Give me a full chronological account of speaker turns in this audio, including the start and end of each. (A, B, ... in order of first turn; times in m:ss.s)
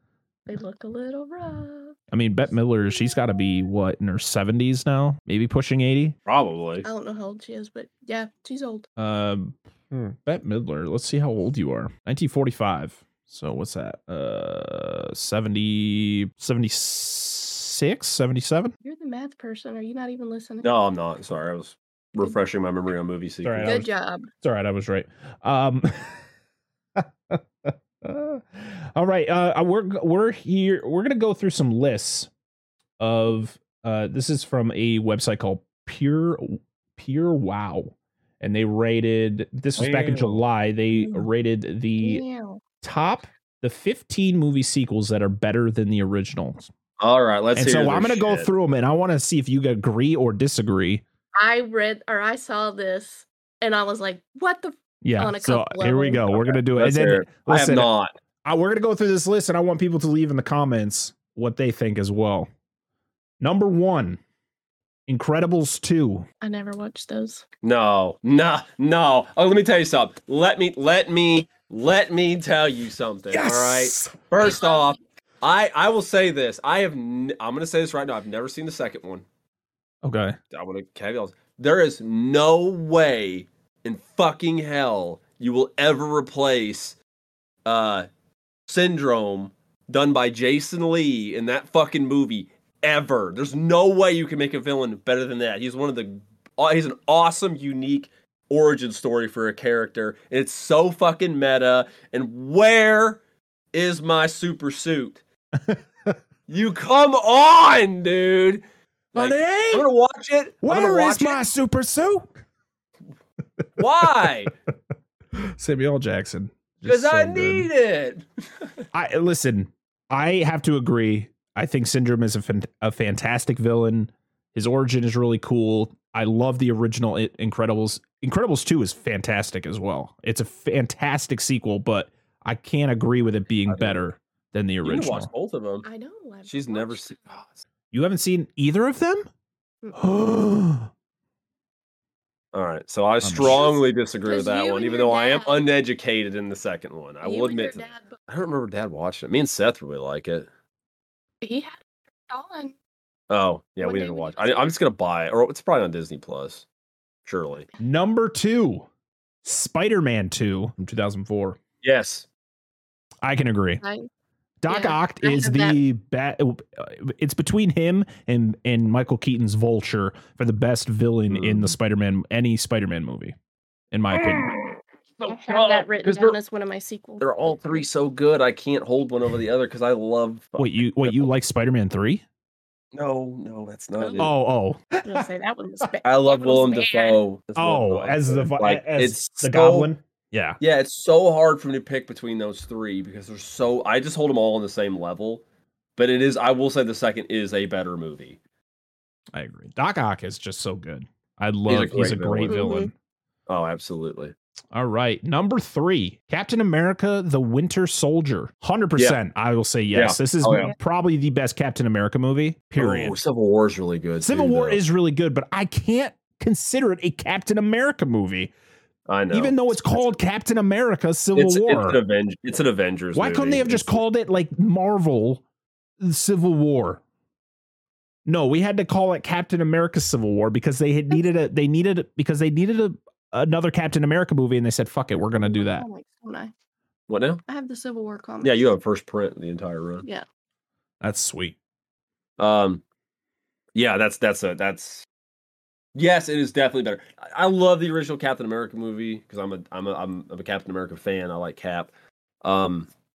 0:00.5-0:02.0 A
0:02.1-0:06.2 B
0:06.3-0:06.9 C
0:06.8-0:08.9 A
0:09.0-0:18.7 B
0:18.8-0:20.7 A
0:20.6-0:23.9 C
0:23.4-0:23.9 B
0:23.6-0:24.3 A
0:24.4-0:26.2 B
0:27.0-0:32.3 B
0:33.0-0:42.2 B
0:39.8-0:40.4 C
0:40.9-0:41.3 A
0:42.0-0:42.6 A
0:42.8-0:46.7 B
0:47.0-0:48.5 C
0:47.6-0:51.0 B
0:51.4-0:56.3 A
0:55.0-0:57.9 B
0:56.3-0:58.1 C
0:58.4-1:02.5 B
1:03.4-1:04.2 B
1:05.1-1:06.3 B
1:06.4-1:07.4 A
1:07.6-1:19.2 C
1:13.3-1:14.2 B
1:14.4-1:14.8 A
1:20.0-1:20.4 B
1:20.5-1:27.0 C
1:27.7-1:28.1 C
1:28.7-1:43.2 C
1:43.7-1:45.2 C
1:45.6-1:46.1 B
1:46.5-1:48.6 C
1:49.1-1:49.9 B
1:49.1-1:51.4 C
1:50.6-1:52.4 B
1:53.8-1:54.5 C
1:55.4-1:57.7 B
1:56.8-1:58.2 C
1:58.9-2:15.3 B
2:13.7-2:14.0 C
2:14.8-2:15.9 C
2:15.8-2:17.2 A
2:16.5-2:17.6 C
2:17.9-2:19.3 B
2:20.0-2:20.9 B
2:22.5-2:30.5 C
2:23.2-2:23.6 B
2:23.4-2:25.7 A
2:27.2-2:28.2 A
2:31.4-2:31.8 A
2:32.3-2:32.8 A
2:33.3-2:36.6 C
2:33.8-2:34.8 A
2:37.3-2:37.7 C
2:37.8-2:38.9 B
2:39.4-2:41.6 B
2:41.8-2:42.3 C
2:43.2-2:43.8 B
2:43.8-2:44.1 A
2:44.6-2:53.3 B
2:44.7-2:45.8 A
2:51.3-2:51.8 C
2:53.9-2:54.5 B
2:54.1-2:56.4 C
2:55.3-2:57.9 A
2:57.2-3:01.3 C
3:00.6-3:02.2 B
3:02.9-3:04.3 C
3:04.0-3:04.3 A
3:04.2-3:05.2 B
3:05.0-3:07.2 A
3:06.0-3:09.9 C
3:07.6-3:10.6 B
3:10.6-3:15.4 C
3:16.0-3:18.4 C
3:19.3-3:22.9 B
3:21.7-3:22.6 C
3:22.5-3:22.9 A
3:23.5-3:24.3 C
3:24.7-3:33.2 B
3:29.9-3:30.7 C
3:32.8-3:34.8 C
3:34.2-3:38.5 B
3:39.1-3:40.1 C
3:39.3-3:42.0 B
3:41.4-3:44.0 C
3:43.2-3:45.4 B
3:46.0-3:47.0 B
3:48.3-3:55.9 B
3:55.4-3:56.5 A
3:57.1-3:57.4 C
3:57.5-3:58.7 A
3:58.4-4:00.0 C
4:01.0-4:01.6 B
4:02.4-4:02.8 C
4:03.8-4:05.1 C
4:06.0-4:11.9 C
4:12.4-4:12.9 C